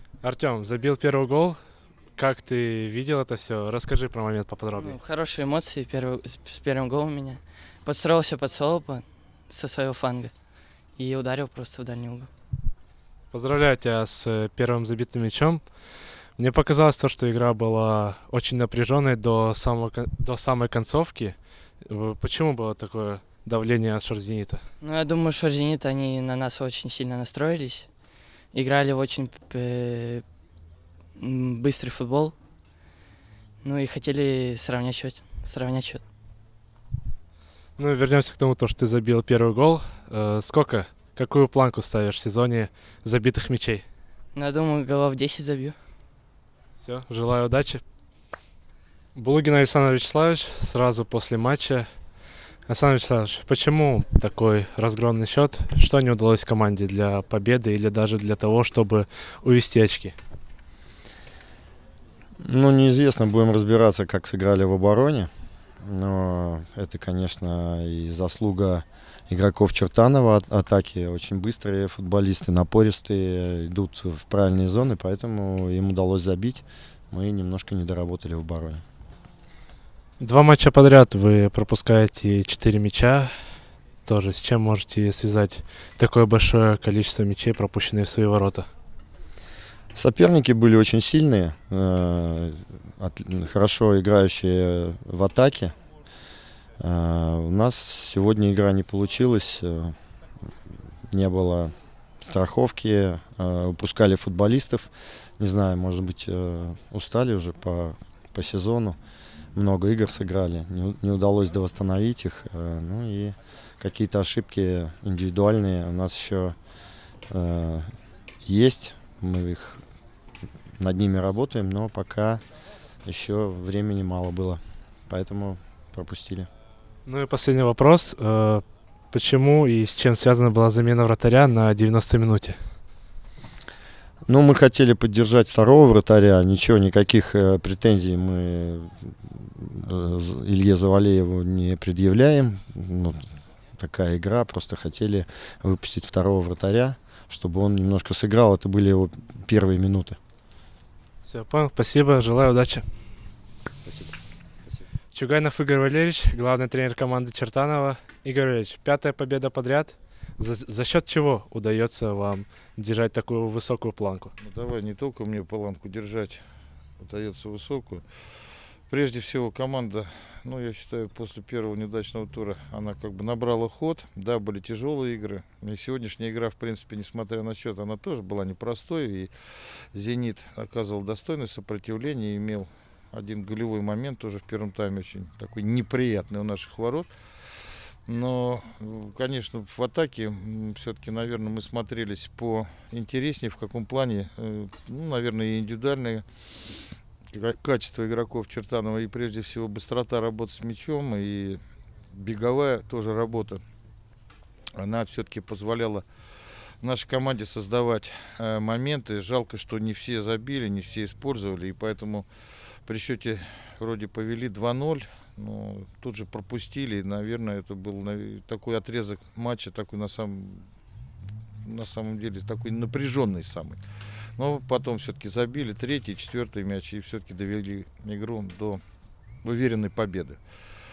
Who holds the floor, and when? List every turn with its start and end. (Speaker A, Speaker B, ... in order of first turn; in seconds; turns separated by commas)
Speaker A: 0.2-1.6, Speaker A: 2.1-5.0, Speaker B: 4.8-10.3, Speaker B: 11.0-12.3, Speaker A: 13.3-15.6, Speaker A: 16.4-24.6, Speaker B: 24.8-27.8, Speaker B: 28.5-30.2, Speaker B: 31.2-32.3, Speaker B: 33.6-36.0, Speaker A: 37.8-43.8, Speaker B: 44.3-45.7, Speaker A: 46.8-47.8, Speaker A: 49.1-51.9, Speaker A: 52.7-60.1, Speaker C: 62.4-78.8, Speaker A: 80.2-83.3, Speaker A: 84.0-88.7, Speaker C: 89.9-95.7, Speaker C: 96.8-100.0, Speaker C: 101.1-109.0, Speaker C: 109.5-116.5, Speaker C: 117.3-119.8, Speaker C: 120.8-122.4, Speaker C: 123.0-126.5, Speaker A: 127.0-132.6, Speaker C: 134.2-150.2, Speaker A: 151.2-152.8, Speaker C: 153.8-154.2, Speaker A: 155.1-164.3, Speaker D: 164.4-166.4, Speaker D: 167.0-168.0, Speaker D: 168.9-179.3, Speaker D: 179.9-187.1, Speaker D: 188.1-196.2, Speaker D: 197.3-201.6, Speaker D: 202.1-203.6, Speaker D: 204.8-206.0, Speaker D: 206.8-212.2, Speaker D: 212.8-220.7, Speaker D: 221.6-223.8, Speaker D: 224.4-228.8, Speaker D: 229.4-230.4